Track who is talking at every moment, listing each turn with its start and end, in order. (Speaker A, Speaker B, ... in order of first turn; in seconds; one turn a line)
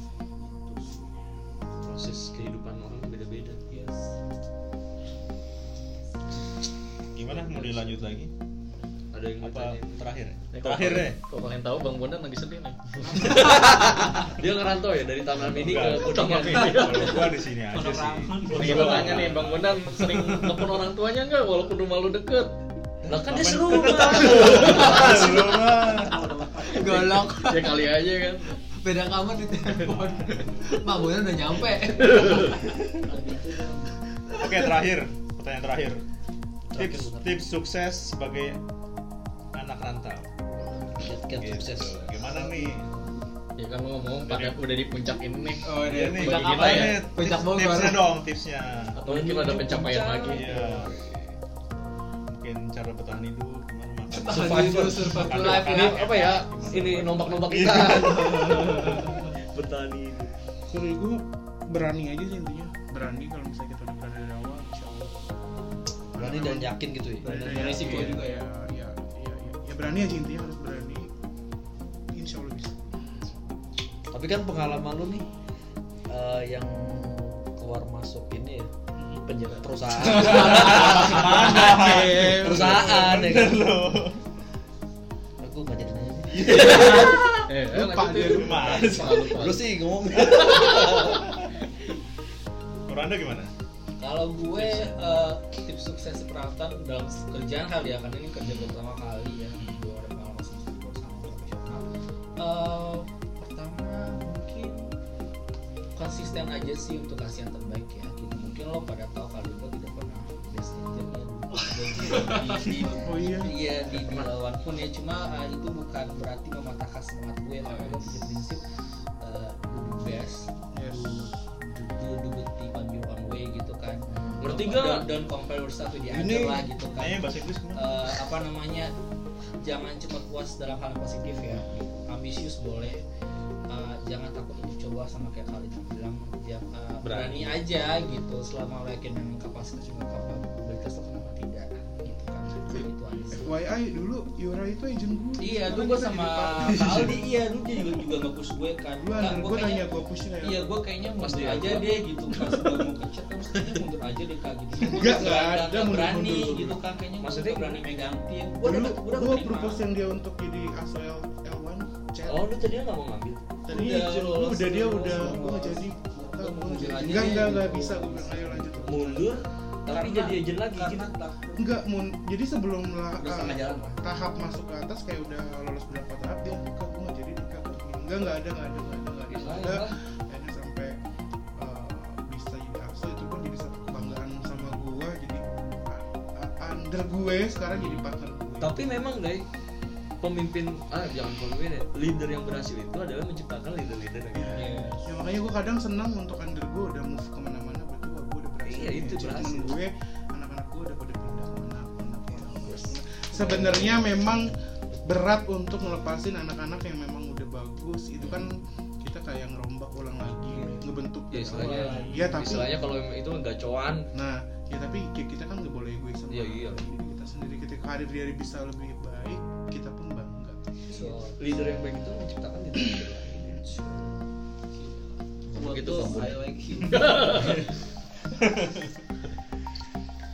Speaker A: 0.4-1.2
Speaker B: 1.8-3.6
Speaker A: 3.7-4.1
Speaker C: 7.1-8.3
Speaker B: 7.4-7.9
Speaker B: 9.1-10.1
Speaker C: 9.4-11.2
Speaker D: 10.5-13.4
Speaker A: 13.0-13.6
Speaker B: 13.2-17.2
Speaker C: 15.4-19.6
Speaker D: 16.1-17.2
Speaker E: 16.8-17.1
Speaker B: 17.7-19.6
Speaker D: 18.5-22.5
Speaker E: 20.1-20.5
Speaker B: 23.1-25.4
Speaker C: 23.2-26.1
Speaker A: 25.0-27.3
Speaker E: 26.6-27.8
Speaker D: 27.4-28.6
Speaker E: 28.7-32.6
Speaker D: 32.0-32.5
Speaker A: 32.2-34.0
Speaker C: 34.4-36.0
Speaker F: 36.7-37.3
Speaker C: 36.7-38.6
Speaker C: 39.5-40.3
Speaker F: 40.6-42.6
Speaker C: 41.2-42.9
Speaker D: 43.6-47.1
Speaker C: 44.3-44.6
Speaker C: 45.7-49.0
Speaker E: 45.9-48.1
Speaker D: 49.0-50.5
Speaker B: 49.0-51.3
Speaker C: 50.2-50.9
Speaker C: 52.3-59.1
Speaker E: 54.1-56.0
Speaker B: 54.3-60.3
Speaker E: 58.0-58.9
Speaker G: 60.7-65.1
Speaker F: 66.1-67.5
Speaker G: 66.1-71.1
Speaker D: 67.2-68.4
Speaker E: 67.4-68.3
Speaker G: 72.1-73.3
Speaker F: 74.1-75.2
Speaker F: 76.1-78.7
Speaker F: 79.2-83.7
Speaker C: 80.1-84.2
Speaker G: 81.6-82.8
Speaker F: 85.4-87.4
Speaker C: 86.3-87.2
Speaker D: 87.5-91.0
Speaker G: 87.7-89.0
Speaker C: 88.2-89.3
Speaker F: 89.0-91.3
Speaker C: 92.9-93.5
Speaker A: 94.0-101.8
Speaker F: 94.5-95.1
Speaker C: 98.4-98.8
Speaker C: 99.6-99.9
Speaker A: 102.4-104.9
Speaker A: 106.0-118.6
Speaker E: 112.0-112.8
Speaker G: 112.9-113.5
Speaker A: 119.2-128.9
Speaker G: 120.7-121.3
Speaker F: 124.1-124.4
Speaker B: 124.4-125.0
Speaker F: 126.1-126.6
Speaker C: 126.8-128.2
Speaker A: 129.6-133.0
Speaker A: 133.7-143.6
Speaker C: 137.0-137.6
Speaker G: 143.3-147.2
Speaker A: 145.4-149.8
Speaker G: 149.0-150.6
Speaker A: 150.4-159.8
Speaker B: 151.2-152.0
Speaker G: 154.8-156.8
Speaker B: 157.2-157.8
Speaker G: 158.6-162.5
Speaker B: 162.3-163.4
Speaker G: 163.6-169.4
Speaker A: 163.7-168.9
Speaker B: 168.8-171.1
Speaker A: 169.9-171.7
Speaker G: 171.5-181.0
Speaker F: 173.2-174.0
Speaker B: 179.3-179.9
Speaker G: 181.6-188.9
Speaker B: 188.6-189.4
Speaker B: 190.2-194.7
Speaker G: 194.3-212.7
Speaker A: 194.5-195.1
Speaker B: 198.6-199.7
Speaker B: 211.3-214.1
Speaker A: 211.5-212.2
Speaker C: 211.8-212.1
Speaker G: 214.1-220.7
Speaker B: 216.3-216.8
Speaker A: 220.9-221.3
Speaker B: 221.0-223.8
Speaker E: 224.7-227.6
Speaker F: 225.5-226.5
Speaker D: 226.9-227.6
Speaker C: 228.4-228.9